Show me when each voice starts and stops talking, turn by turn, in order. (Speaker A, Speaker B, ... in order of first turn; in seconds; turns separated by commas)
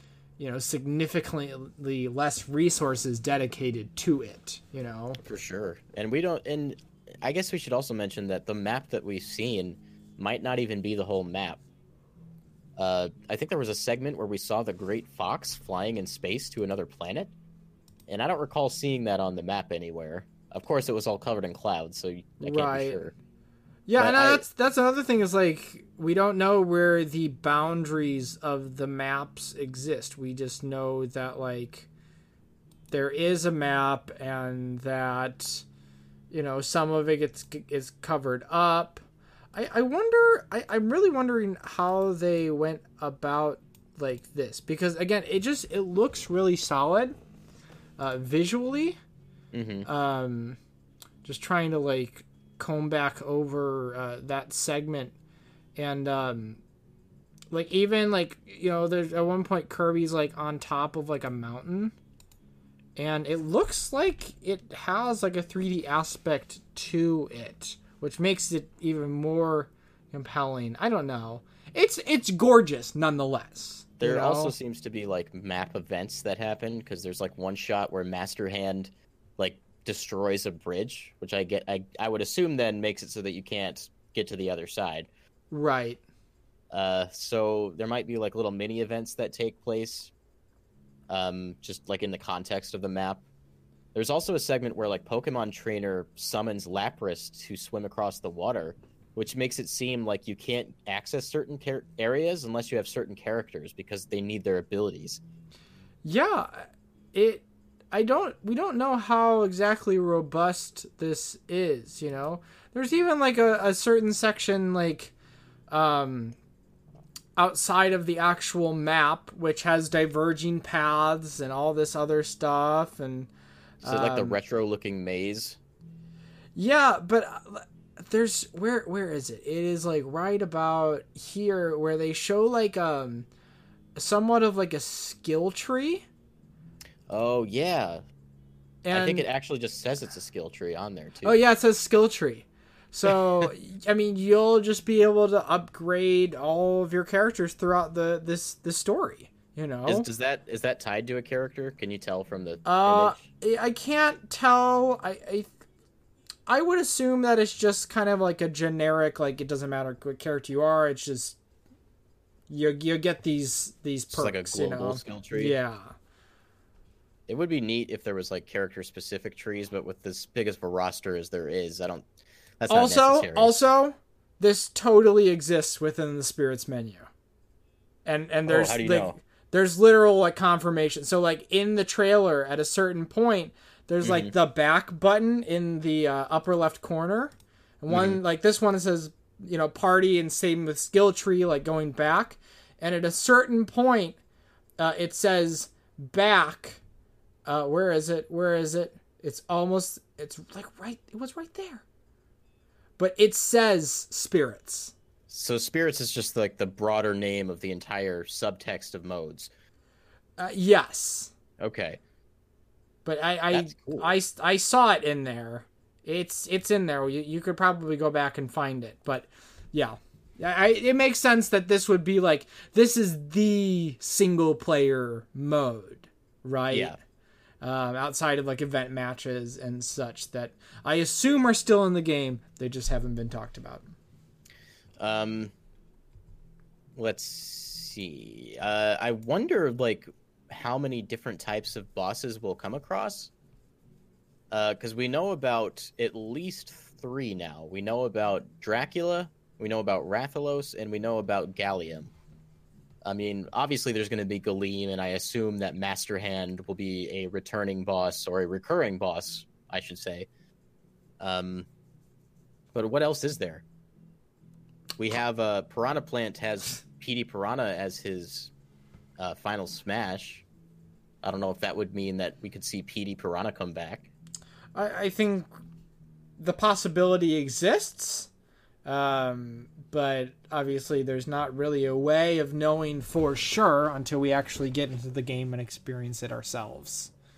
Speaker A: 0.4-5.2, Speaker B: 5.2-11.6, Speaker B: 12.8-17.3, Speaker B: 18.1-23.1, Speaker A: 22.4-23.0, Speaker A: 23.9-31.9, Speaker B: 24.0-24.4, Speaker A: 32.9-35.6, Speaker A: 36.3-39.0, Speaker A: 39.5-47.1, Speaker A: 48.0-49.0, Speaker B: 49.5-49.9, Speaker A: 49.9-50.6, Speaker A: 51.2-55.1, Speaker A: 55.8-56.6, Speaker A: 57.5-61.9, Speaker A: 63.0-74.5, Speaker B: 74.0-85.1, Speaker A: 85.5-86.0, Speaker B: 86.7-90.1, Speaker B: 91.1-93.2, Speaker B: 93.9-105.2, Speaker A: 106.0-115.1, Speaker A: 115.7-116.3, Speaker A: 117.4-123.3, Speaker A: 123.8-124.4, Speaker B: 123.8-125.6, Speaker A: 126.5-133.3, Speaker A: 134.0-136.0, Speaker B: 137.1-138.0, Speaker A: 138.8-139.2, Speaker B: 138.9-141.4, Speaker A: 141.2-150.1, Speaker B: 149.8-153.2, Speaker A: 152.6-155.5, Speaker A: 156.5-161.4, Speaker A: 162.5-165.9, Speaker B: 164.1-165.6, Speaker B: 167.3-172.1, Speaker B: 172.6-173.6, Speaker A: 172.7-177.1, Speaker A: 178.1-194.2, Speaker B: 178.5-179.2, Speaker B: 184.0-184.3, Speaker B: 187.9-188.2, Speaker A: 194.8-196.8, Speaker A: 197.4-201.8, Speaker A: 203.0-204.9, Speaker B: 205.3-209.5, Speaker A: 210.4-211.3, Speaker B: 211.6-212.0, Speaker A: 213.0-227.0, Speaker B: 213.5-214.1, Speaker B: 226.7-227.0, Speaker A: 227.6-233.8, Speaker B: 235.0-235.5, Speaker B: 236.9-243.3, Speaker B: 244.5-252.1, Speaker B: 253.0-260.3, Speaker B: 261.2-261.7, Speaker B: 262.7-263.6, Speaker B: 265.0-268.5, Speaker B: 269.2-270.4, Speaker B: 271.2-274.1, Speaker A: 274.7-275.5, Speaker A: 276.4-278.3, Speaker A: 278.8-287.1